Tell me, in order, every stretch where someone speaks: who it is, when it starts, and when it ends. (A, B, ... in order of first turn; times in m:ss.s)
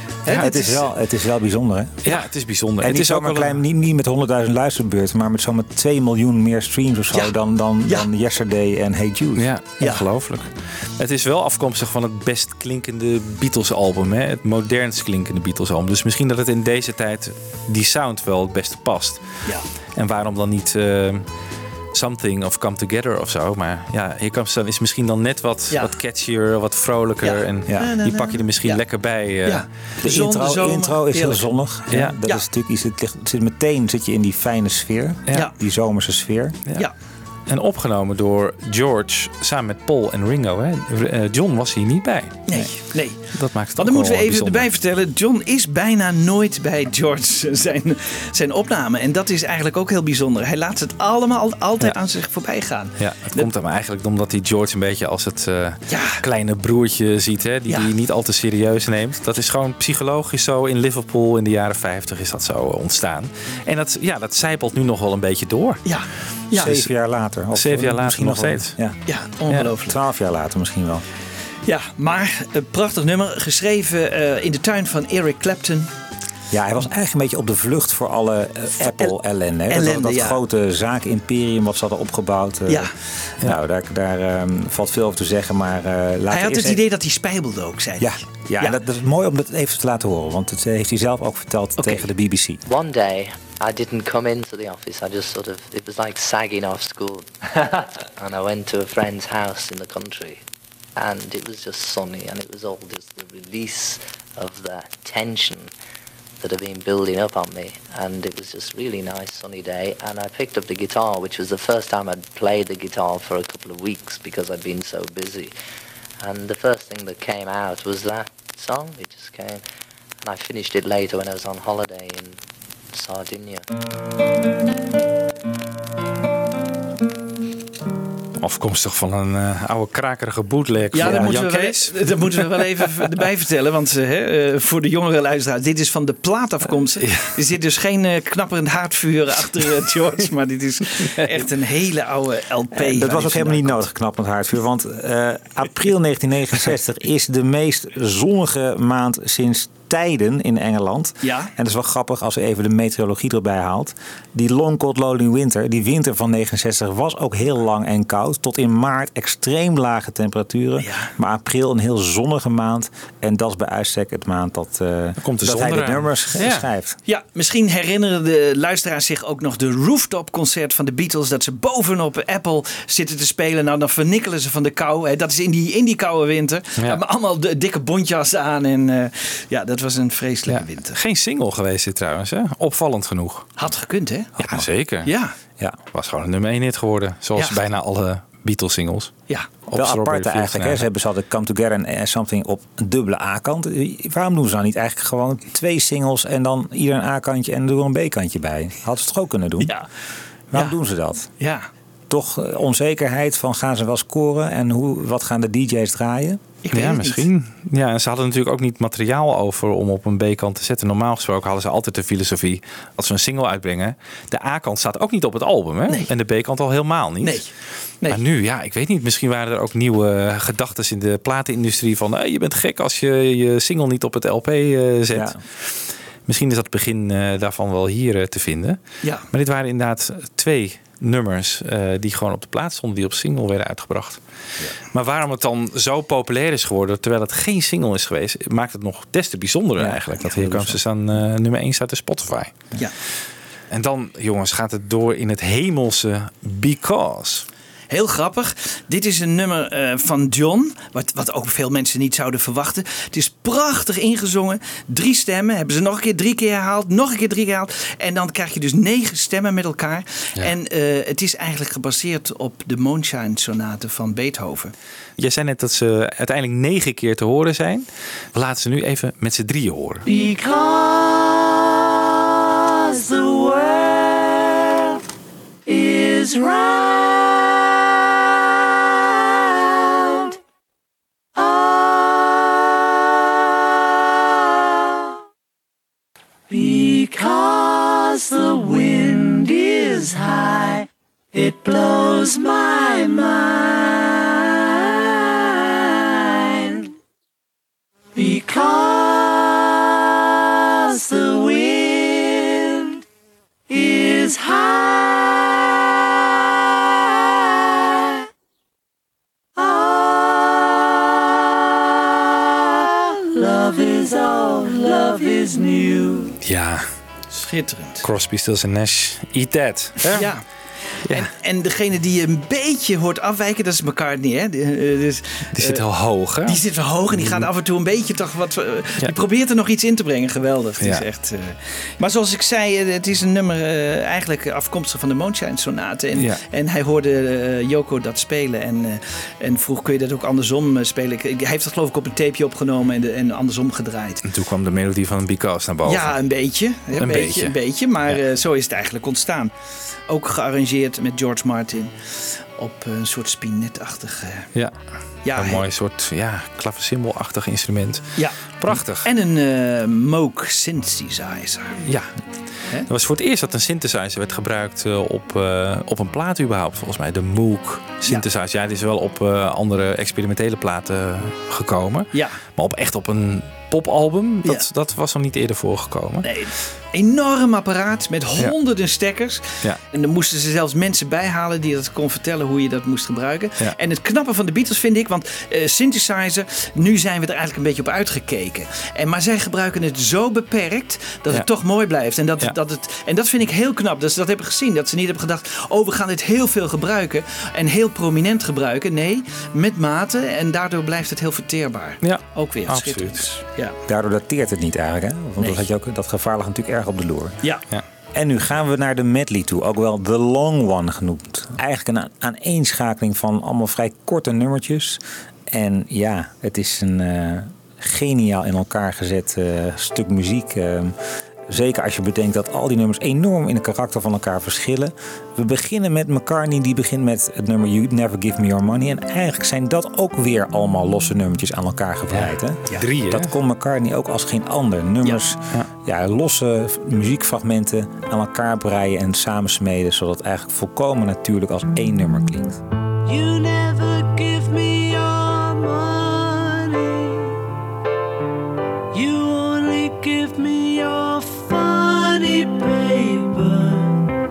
0:00.2-0:00.9 A
0:00.3-0:02.2 B
0:02.0-0:03.6 C
0:02.8-0:09.5 B
0:09.4-0:19.2 C
0:20.0-0:21.3 C
0:21.9-0:29.7 C
0:27.2-0:28.8 A
0:29.4-0:31.5 A
0:30.0-0:36.6 B
0:31.9-0:32.2 C
0:37.5-0:42.4 C
0:42.5-0:53.5 A
0:43.3-0:44.6 C
0:53.0-1:05.8 C
0:55.9-0:56.2 A
1:05.8-1:06.8 A
1:06.5-1:09.0 B
1:06.6-1:06.8 C
1:07.5-1:08.8 C
1:09.0-1:10.0 A
1:09.8-1:11.0 B
1:11.6-1:15.9 A
1:16.5-1:26.8 B
1:18.8-1:19.2 A
1:19.7-1:20.4 A
1:22.7-1:22.9 A
1:26.3-1:28.8 A
1:28.0-1:32.6 B
1:32.7-1:40.4 D
1:41.0-1:45.7 D
1:46.4-1:55.5 D
1:56.2-1:59.6 D
2:00.2-2:02.4 D
2:02.9-2:03.6 D
2:08.4-2:12.6 C
2:10.9-2:23.8 A
2:11.0-2:11.3 B
2:17.0-2:17.3 C
2:21.0-2:21.4 C
2:22.7-2:47.0 B
2:31.2-2:31.5 A
2:40.8-2:41.1 A
2:45.2-2:46.7 C
2:47.1-3:01.0 A
3:00.5-3:03.5 C
3:03.6-3:05.3 A
3:04.5-3:05.1 C
3:05.9-3:09.1 C
3:09.7-3:10.8 C
3:09.7-3:19.7 B
3:19.6-3:19.9 A
3:20.5-3:21.3 B
3:21.4-3:21.7 A
3:22.1-3:26.4 B
3:26.6-3:27.3 A
3:26.7-3:37.4 C
3:37.2-3:37.5 A
3:38.1-3:48.8 C
3:45.1-3:45.4 B
3:49.3-3:54.2 C
3:54.9-4:02.6 C
3:59.8-4:00.8 B
4:03.7-4:07.4 C
4:07.9-4:24.7 A
4:25.2-4:30.0 C
4:30.0-4:35.0 E
4:35.6-4:40.4 E
4:41.4-4:45.1 E
4:46.5-4:56.9 E
4:58.1-5:03.0 E
5:03.7-5:06.1 E
5:06.7-5:08.2 E
5:09.6-5:16.4 E
5:16.4-5:16.8 C
5:17.3-5:18.0 A
5:18.0-5:20.3 C
5:20.1-5:20.4 A
5:21.1-5:25.8 A
5:25.5-5:26.6 C
5:26.5-5:44.2 A
5:27.1-5:27.5 C
5:36.2-5:36.4 C
5:44.2-5:46.2 C
5:45.8-5:49.5 A
5:47.0-5:47.5 C
5:50.1-5:51.9 A
5:52.6-5:54.5 A
5:55.2-5:55.6 A
5:55.3-5:59.1 C
5:59.0-6:01.8 A
6:01.8-6:02.1 C
6:02.9-6:16.3 C
6:12.1-6:12.4 A
6:16.2-6:43.7 A
6:42.0-6:43.2 C
6:43.9-6:47.4 B
6:45.4-6:45.6 A
6:48.1-7:00.9 B
7:01.5-7:22.6 B
7:12.1-7:13.4 C
7:23.0-7:27.4 E
7:28.9-7:34.1 E